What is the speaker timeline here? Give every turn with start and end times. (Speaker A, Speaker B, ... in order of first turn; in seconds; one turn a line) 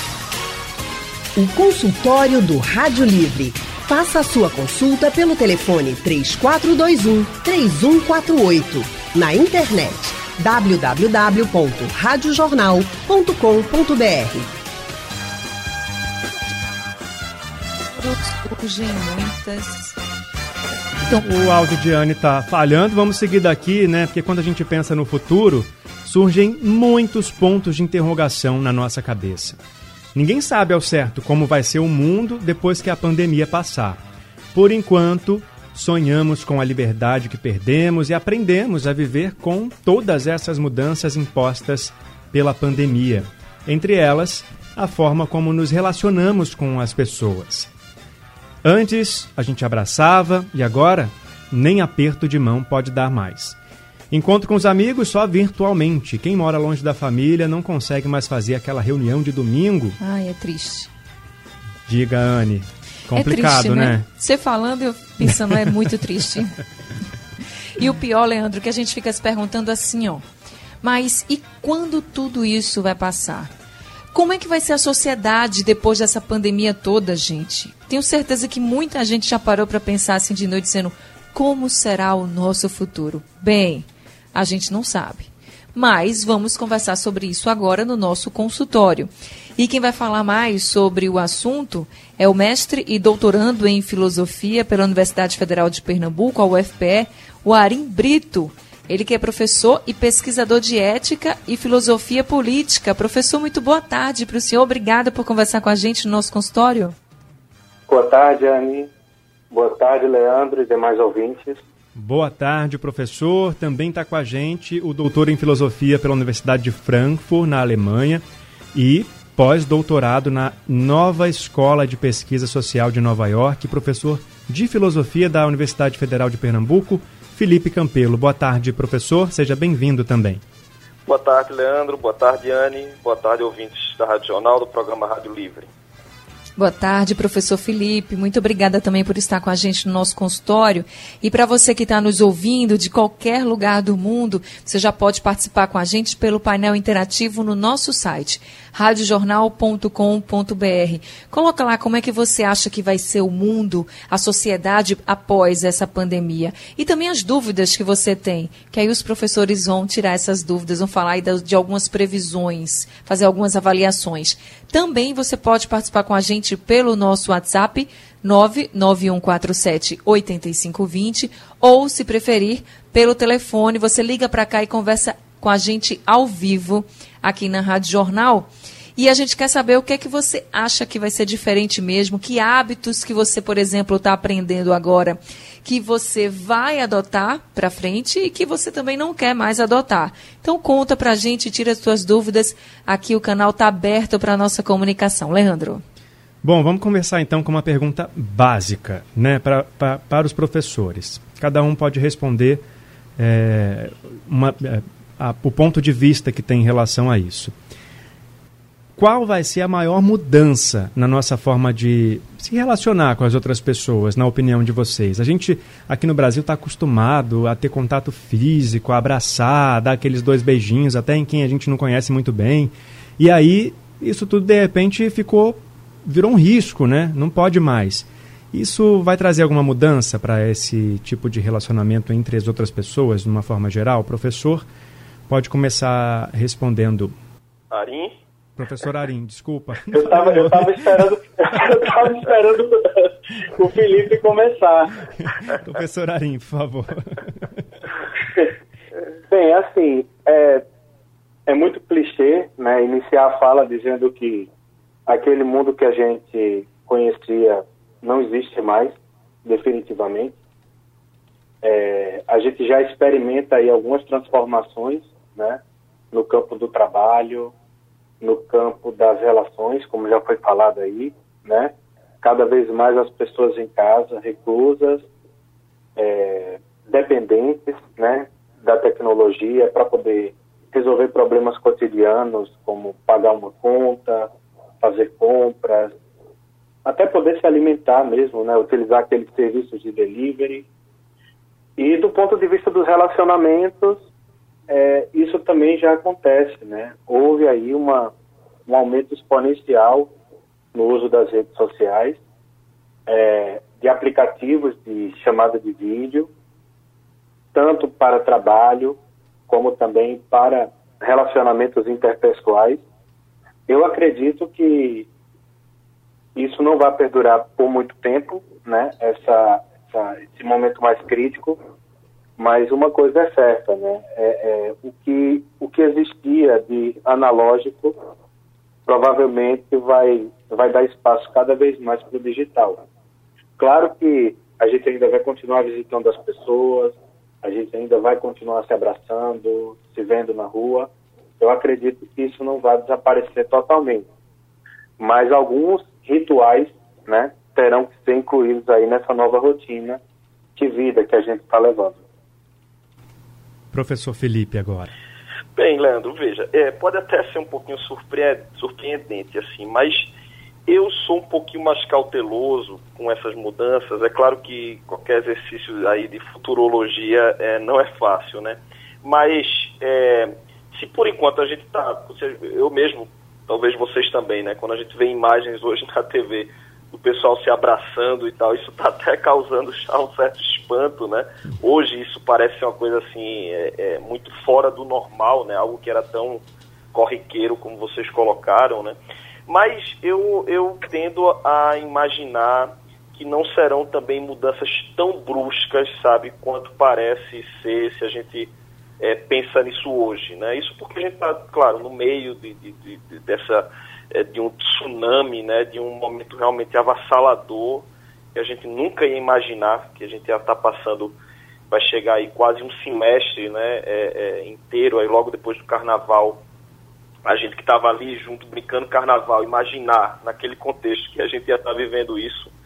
Speaker A: 1.4-14.6
Speaker B: 18.0-20.0
Speaker C: 21.1-29.6
Speaker C: 30.1-34.0
Speaker C: 34.5-47.7
Speaker C: 48.6-53.6
Speaker C: 54.1-60.0
Speaker B: 60.0-60.9
Speaker C: 61.9-64.0
Speaker B: 63.1-66.6
Speaker B: 67.8-70.2
Speaker B: 70.8-73.5
Speaker B: 74.1-107.0
Speaker D: 107.9-108.9
Speaker D: 109.5-111.6
Speaker C: 112.0-118.2
Speaker C: 118.7-130.4
Speaker E: 131.1-135.7
Speaker B: 136.6-195.8
Speaker C: 196.4-202.6
Speaker C: 203.2-207.6
Speaker C: 209.0-234.7
Speaker C: 235.3-237.1
Speaker E: 237.7-238.1
Speaker C: 238.6-240.8
Speaker D: 239.9-245.0
Speaker C: 245.2-247.6
Speaker D: 249.3-250.6
Speaker D: 251.5-254.5
Speaker D: 255.1-260.4
Speaker D: 261.6-265.6
Speaker D: 266.1-267.5
Speaker D: 268.2-275.1
Speaker D: 276.0-284.3
Speaker D: 284.8-285.9
Speaker D: 286.9-290.7
Speaker D: 291.8-294.0
Speaker D: 294.7-298.1
Speaker D: 298.7-300.1
Speaker D: 300.7-302.2
Speaker D: 303.1-306.3
Speaker D: 307.5-312.8
Speaker D: 313.7-315.1
Speaker D: 316.4-321.6
Speaker D: 322.4-328.0
Speaker D: 328.9-332.8
Speaker D: 333.6-344.1
Speaker D: 345.0-350.0
Speaker D: 350.6-352.0
Speaker C: 353.7-354.9
Speaker E: 355.6-360.1
Speaker E: 360.7-386.4
Speaker E: 386.9-389.0
Speaker E: 389.5-411.2
Speaker E: 411.7-416.4
Speaker E: 417.2-422.5